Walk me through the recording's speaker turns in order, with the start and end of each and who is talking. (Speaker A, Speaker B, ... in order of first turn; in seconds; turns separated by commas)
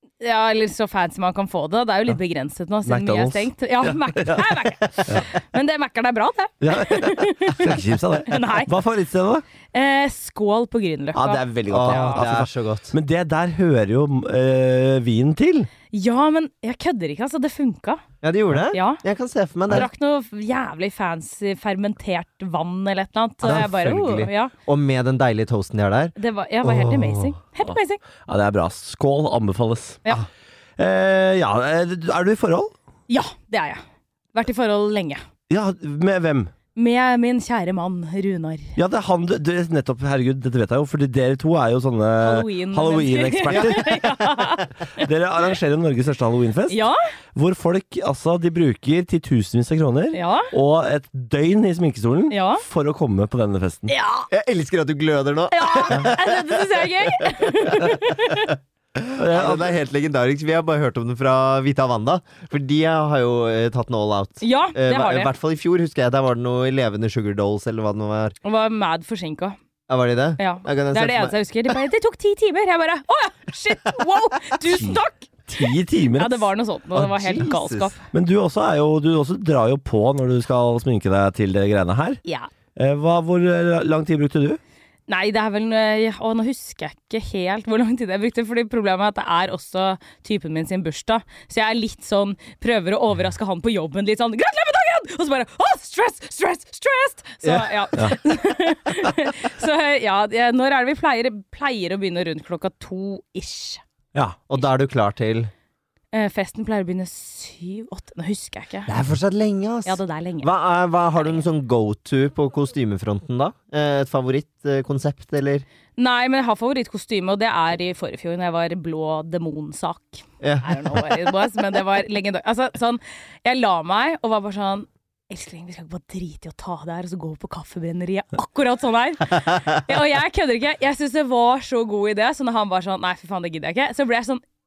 Speaker A: 0.2-8.7, Speaker B: 2.9-4.5, Speaker B: 6.6-9.4, Speaker A: 9.7-12.2, Speaker B: 11.1-15.7, Speaker C: 11.7-12.9, Speaker A: 15.9-18.0, Speaker C: 18.2-19.9, Speaker A: 18.7-19.0, Speaker A: 19.7-24.5, Speaker C: 23.4-27.2, Speaker A: 26.2-28.0, Speaker B: 27.6-30.0, Speaker B: 30.8-32.7, Speaker A: 33.1-33.8, Speaker A: 34.3-35.2, Speaker B: 35.5-36.5, Speaker A: 36.8-38.8, Speaker B: 38.8-44.2, Speaker A: 42.2-45.1, Speaker B: 45.0-46.8, Speaker A: 46.7-47.0, Speaker B: 47.4-53.9, Speaker A: 50.1-50.5, Speaker A: 52.3-52.6, Speaker A: 53.9-54.3, Speaker C: 54.3-56.6, Speaker A: 55.5-58.5, Speaker C: 59.0-68.3, Speaker B: 59.1-59.7, Speaker A: 64.4-65.3, Speaker A: 68.4-69.6, Speaker C: 69.9-71.4, Speaker A: 70.4-75.6, Speaker B: 74.6-76.5, Speaker A: 76.2-78.0, Speaker C: 77.0-78.0, Speaker B: 78.1-82.2, Speaker A: 82.2-82.5, Speaker B: 82.8-84.6, Speaker A: 85.1-103.8, Speaker C: 97.4-97.7, Speaker C: 104.5-105.5, Speaker A: 106.1-108.9, Speaker C: 108.9-115.7, Speaker A: 109.9-110.5, Speaker A: 116.0-134.4, Speaker C: 120.4-120.8